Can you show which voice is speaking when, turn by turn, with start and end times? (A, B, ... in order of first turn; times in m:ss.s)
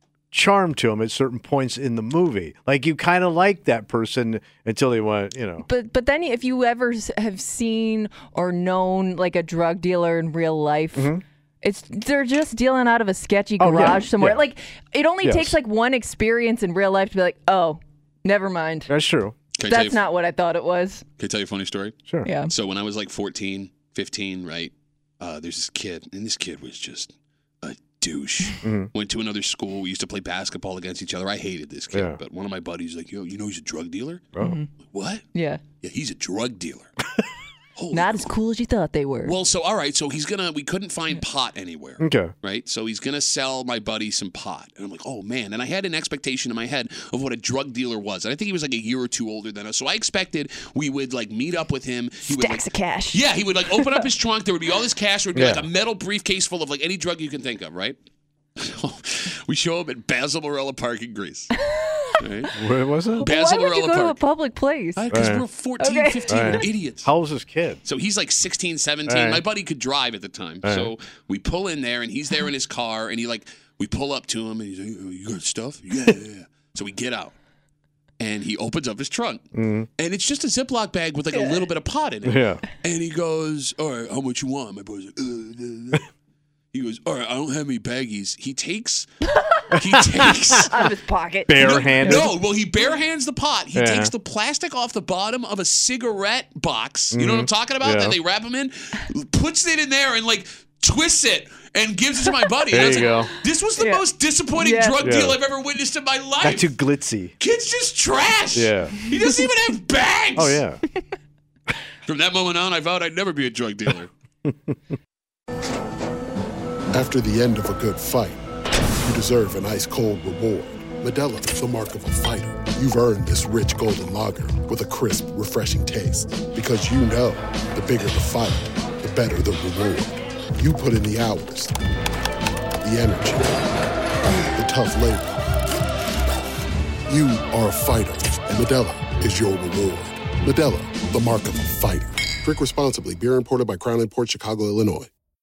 0:00.3-0:05.6 A
0:05.6-0:18.9 B
0:10.9-0:11.2 A
0:13.6-0:14.4 A
0:15.2-0:15.6 A
0:18.9-0:19.4 A
0:19.6-0:20.0 C
0:19.7-0:21.0 B
0:21.2-0:22.0 C
0:22.2-0:22.5 B
0:22.5-0:34.2 C
0:28.6-0:28.9 A
0:31.9-0:32.2 A
0:34.4-0:34.7 B
0:34.9-0:35.2 C
0:35.3-0:35.6 B
0:35.8-0:36.9 C
0:37.8-0:38.3 C
0:37.9-0:39.3 B
0:39.2-0:58.0 C
0:42.0-0:42.3 A
0:52.2-0:53.2 B
0:55.3-0:55.6 A
0:58.6-1:01.5 C
1:01.6-1:02.2 B
1:02.2-1:02.5 C
1:02.5-1:03.3 A
1:03.2-1:05.1 B
1:03.2-1:04.2 C
1:05.0-1:07.1 C
1:05.1-1:05.4 A
1:05.8-1:06.6 B
1:06.3-1:07.8 A
1:07.8-1:17.3 C
1:09.1-1:09.4 A
1:10.6-1:10.9 A
1:18.2-1:19.5 C
1:19.5-1:19.9 A
1:20.0-1:26.0 C
1:22.2-1:22.6 A
1:26.7-1:29.1 C
1:29.3-1:29.6 B
1:29.7-1:30.8 C
1:29.8-1:30.7 A
1:30.7-1:32.3 B
1:31.5-1:32.3 A
1:31.6-1:46.7 C
1:33.7-1:34.1 A
1:37.1-1:38.1 A
1:42.7-1:43.3 A
1:43.8-1:44.0 B
1:44.6-1:45.0 B
1:45.0-1:45.4 A
1:46.4-1:47.3 A
1:47.4-1:50.6 C
1:48.5-1:48.9 A
1:50.4-1:50.8 A
1:52.0-1:54.1 C
1:54.4-1:54.7 A
1:56.9-1:58.4 D
1:59.0-2:11.7 D
2:12.8-2:13.6 D
2:14.5-2:15.4 D
2:17.1-2:25.1 D